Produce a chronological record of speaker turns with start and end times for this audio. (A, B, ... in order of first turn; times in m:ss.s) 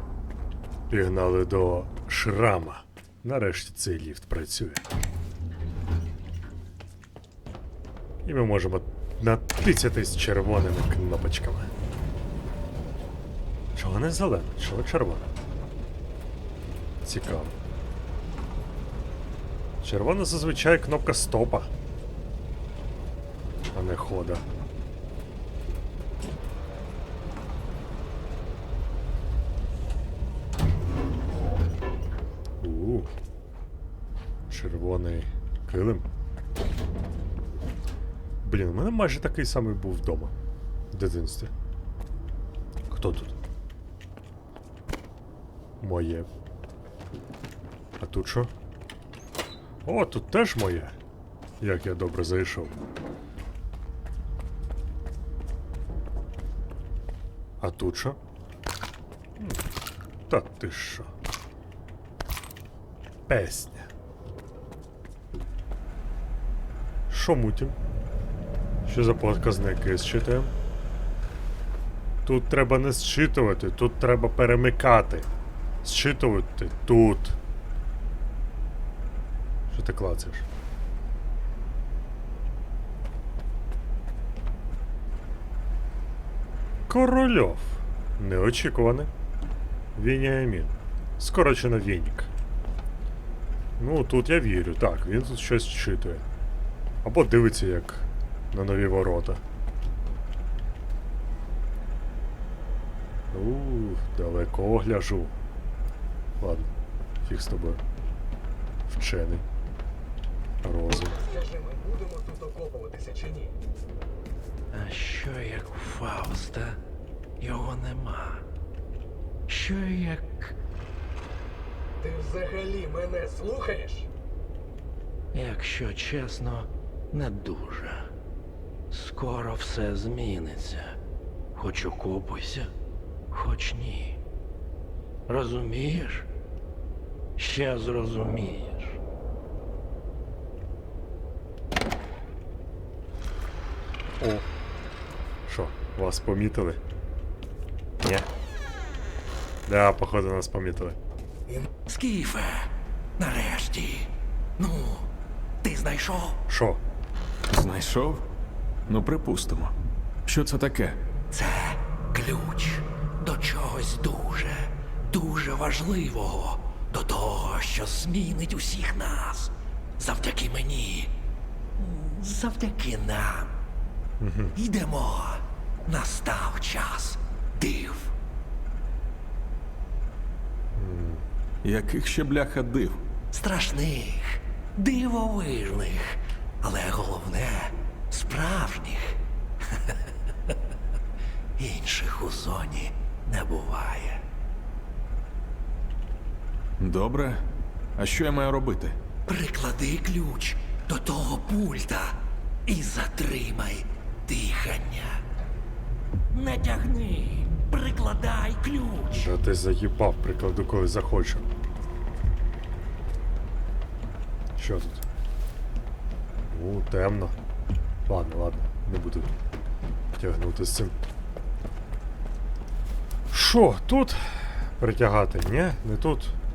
0:00.9-0:04.8 A
0:08.2-0:11.7 A
0:13.7-0:15.3 A
0:17.0-0:17.5 A
0:19.8-0:21.7 A
0:23.7-0:24.4 A
0:32.6-0:33.1 A
0:34.5-0:36.0 A
0:38.4-0:40.3 A
0:40.9-0:41.5 A
0:42.9-0:43.3 A
0:45.8-0:46.3 A
0:48.0-0:48.5 A
0:49.8-0:50.9 A
0:51.6-0:52.8 A
0:57.6-0:58.2 A
1:00.3-1:01.1 A
1:03.3-1:03.9 A
1:07.1-1:07.7 A
1:08.8-1:10.5 A
1:12.2-1:15.3 A
1:15.8-1:17.4 A
1:19.7-1:20.4 A
1:26.9-1:29.1 A
1:30.0-1:32.3 A
1:33.8-1:36.2 A
1:37.0-1:39.4 A
1:43.3-1:45.3 A
1:46.4-1:46.7 A
1:47.2-1:47.8 A
1:48.9-1:49.4 A
1:50.6-1:51.2 A
1:50.9-1:53.6 B
1:54.7-1:56.8 C
1:57.4-1:58.4 C
1:59.5-2:00.5 C
2:02.0-2:04.1 B
2:05.3-2:08.1 C
2:08.9-2:10.9 C
2:11.5-2:12.7 C
2:13.3-2:14.2 C
2:15.3-2:16.3 C
2:17.4-2:19.0 C
2:24.2-2:24.5 A
2:25.5-2:26.8 A
2:28.0-2:28.3 A
2:29.7-2:31.0 A
2:31.8-2:35.1 C
2:35.6-2:36.4 C
2:36.5-2:36.8 A
2:37.5-2:38.2 D
2:38.9-2:39.7 D
2:40.2-2:41.0 D
2:41.3-2:51.2 C
2:51.8-2:53.6 C
2:54.2-2:54.5 A
2:54.6-2:58.1 C
3:00.8-3:01.2 A
3:01.6-3:03.0 D
3:03.3-3:10.6 C
3:11.6-3:14.2 C
3:16.8-3:17.4 D
3:18.0-3:19.0 D
3:19.3-3:25.2 C
3:26.3-3:29.3 C
3:29.1-3:31.5 A
3:34.6-3:35.0 A
3:36.5-3:37.3 A
3:38.1-3:39.3 A
3:40.2-3:41.0 A
3:43.3-3:46.4 A